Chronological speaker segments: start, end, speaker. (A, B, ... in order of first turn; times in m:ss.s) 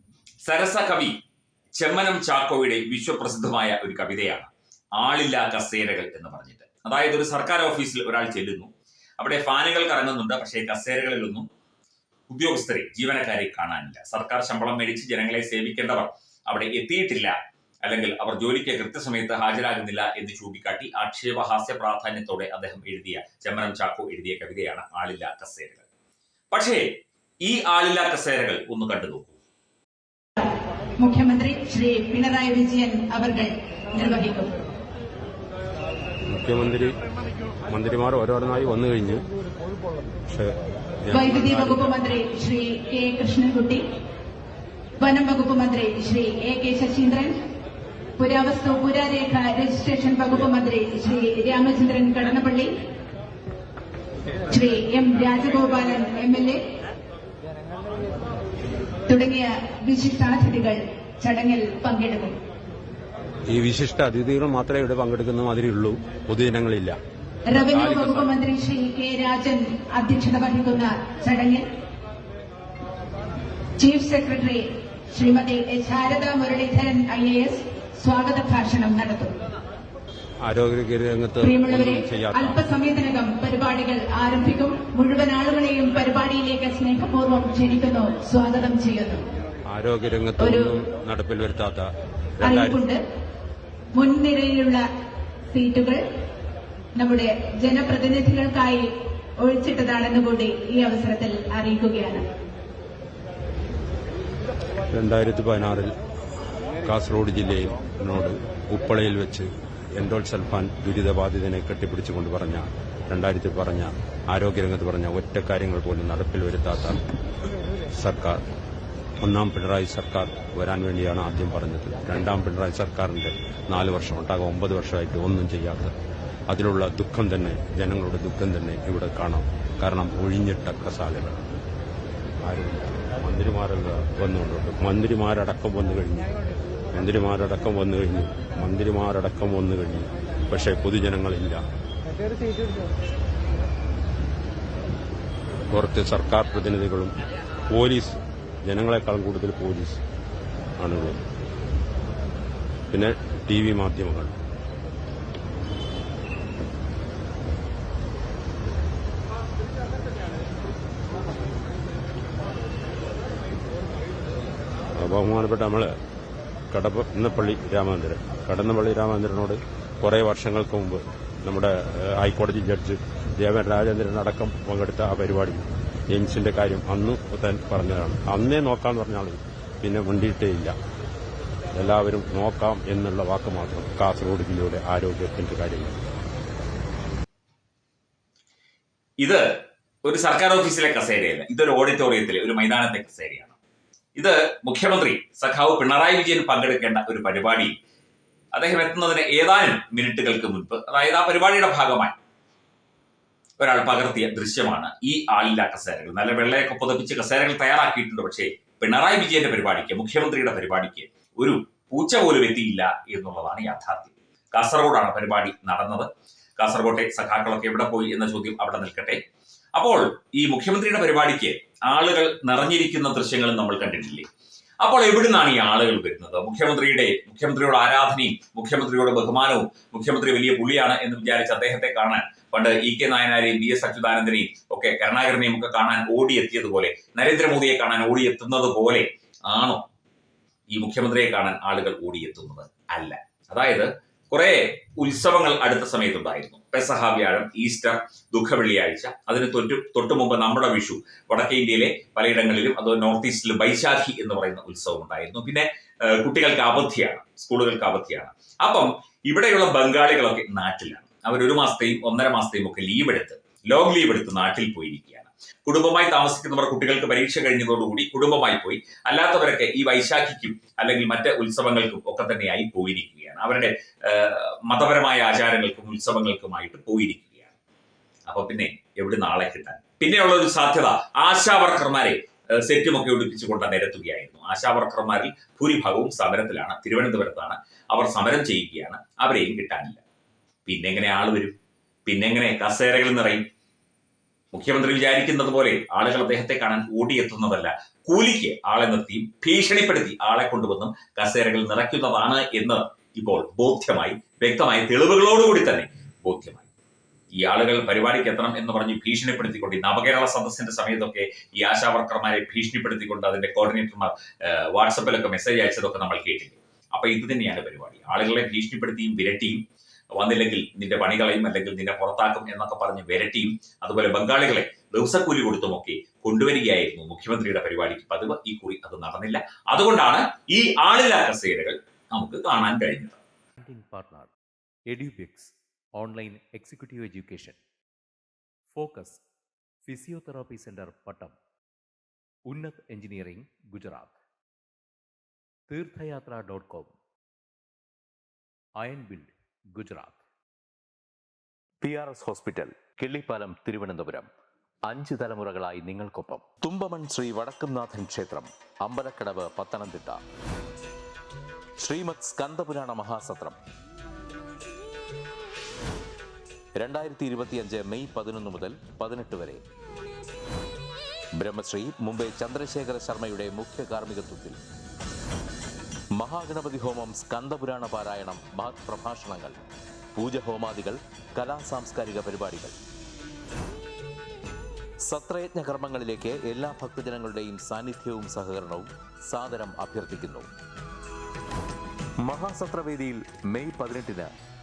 0:00.4-0:01.2 A
0:01.8-0:11.4 A
0:12.3-0:25.8 A
0:26.5-0:29.3 A
0:30.4-0:34.6 B
0:36.3-0:36.9 C
0:37.7-0:39.2 C
0:41.0-0:41.9 C
0:41.1-0:43.8 B
0:45.0-0:47.4 B
0:48.2-0:52.7 B
0:54.5-0:56.6 B
0:59.1-1:02.4 B
1:03.5-1:07.0 C
1:07.5-1:11.6 B
1:07.6-1:08.3 C
1:13.8-1:19.3 B
1:20.4-1:22.6 C
1:21.4-1:29.2 B
1:29.7-1:31.8 C
1:30.4-1:30.7 B
1:32.4-1:32.8 C
1:32.4-1:33.0 B
1:33.9-1:34.8 B
1:35.5-1:36.0 B
1:37.0-1:42.2 B
1:44.9-1:45.9 C
1:46.8-1:57.0 C
1:58.0-1:58.4 C
1:59.2-2:05.9 C
2:06.5-2:11.4 C
2:12.4-2:16.3 C
2:16.9-2:21.6 C
2:25.7-2:27.1 C
2:27.7-2:30.0 C
2:30.8-2:31.2 C
2:32.9-2:34.3 C
2:45.0-2:45.9 C
2:46.7-3:00.7 C
3:01.7-3:06.0 C
3:09.2-3:09.4 A
3:10.0-3:13.6 A
3:14.2-3:17.7 A
3:18.5-3:22.1 A
3:23.6-3:39.2 A
3:39.7-3:44.2 A
3:44.8-3:59.8 A
4:00.7-4:37.5 A
4:38.3-4:50.0 A
4:50.6-4:51.5 A
4:52.0-4:53.4 A
4:54.5-5:06.7 A
5:07.3-5:19.6 A
5:20.2-5:33.2 A
5:33.6-5:34.3 D
5:34.9-5:37.6 D
5:38.7-5:39.2 D
5:39.8-5:41.3 D
5:42.5-5:44.1 D
5:45.7-5:46.9 D
5:48.8-5:50.2 D
5:51.8-5:54.3 D
5:54.8-6:00.2 D
6:01.8-6:03.6 D
6:06.7-6:09.6 D
6:11.4-6:14.6 D
6:16.1-6:19.6 D
6:20.1-6:22.8 D
6:25.0-6:30.5 D
6:32.2-6:34.3 D